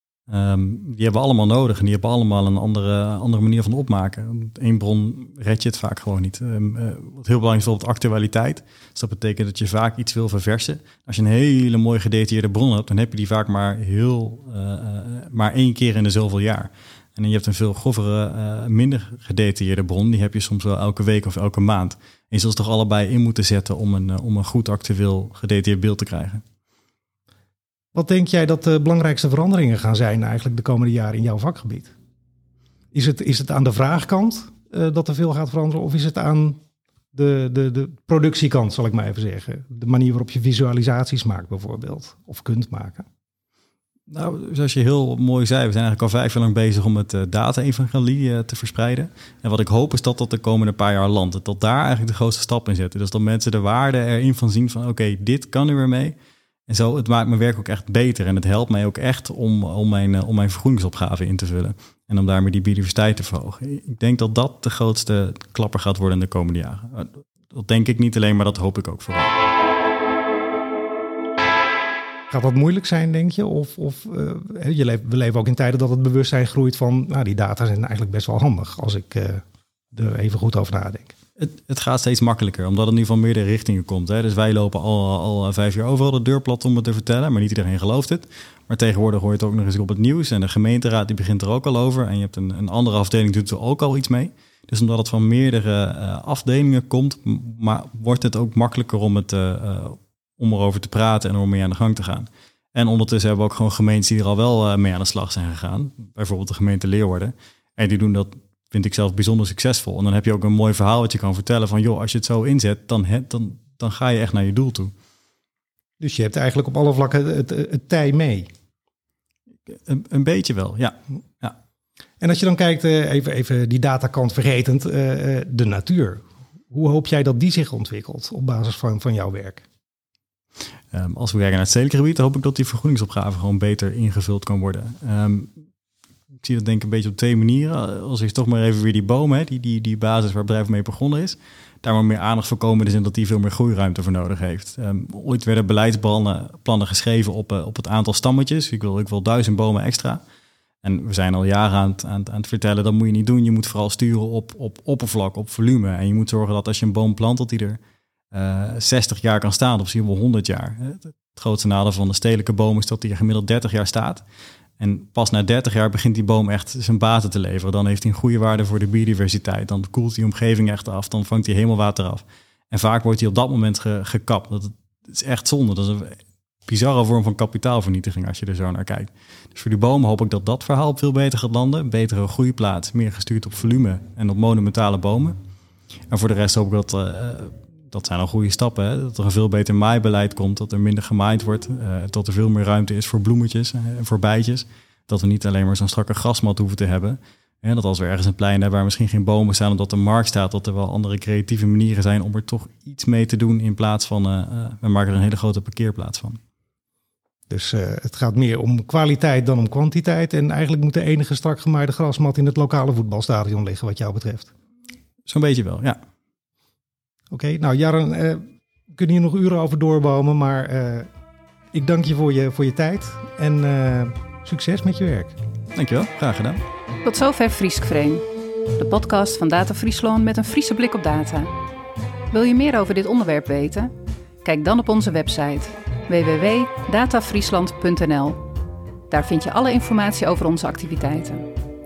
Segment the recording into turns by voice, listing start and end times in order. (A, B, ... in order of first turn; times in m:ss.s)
0:00.3-0:26.4 A
0:27.9-0:31.9 B
0:32.9-0:36.6 B
0:37.1-0:43.0 B
0:44.1-0:56.2 A
0:56.7-1:09.4 A
1:12.3-1:21.2 B
1:21.4-1:54.9 A
1:56.0-1:58.5 B
1:59.7-2:01.6 A
2:02.2-2:09.6 B
2:10.9-2:15.5 A
2:16.4-2:30.2 A
2:30.8-2:37.8 A
2:38.3-2:44.2 A
2:44.8-3:05.4 A
3:06.1-3:26.4 A
3:27.5-3:34.5 B
3:35.3-3:36.0 A
3:37.3-3:41.1 B
3:41.7-3:45.4 B
3:45.8-3:46.6 A
3:47.0-3:48.2 C
3:48.8-3:51.5 C
3:52.3-3:58.5 C
3:59.1-4:01.5 C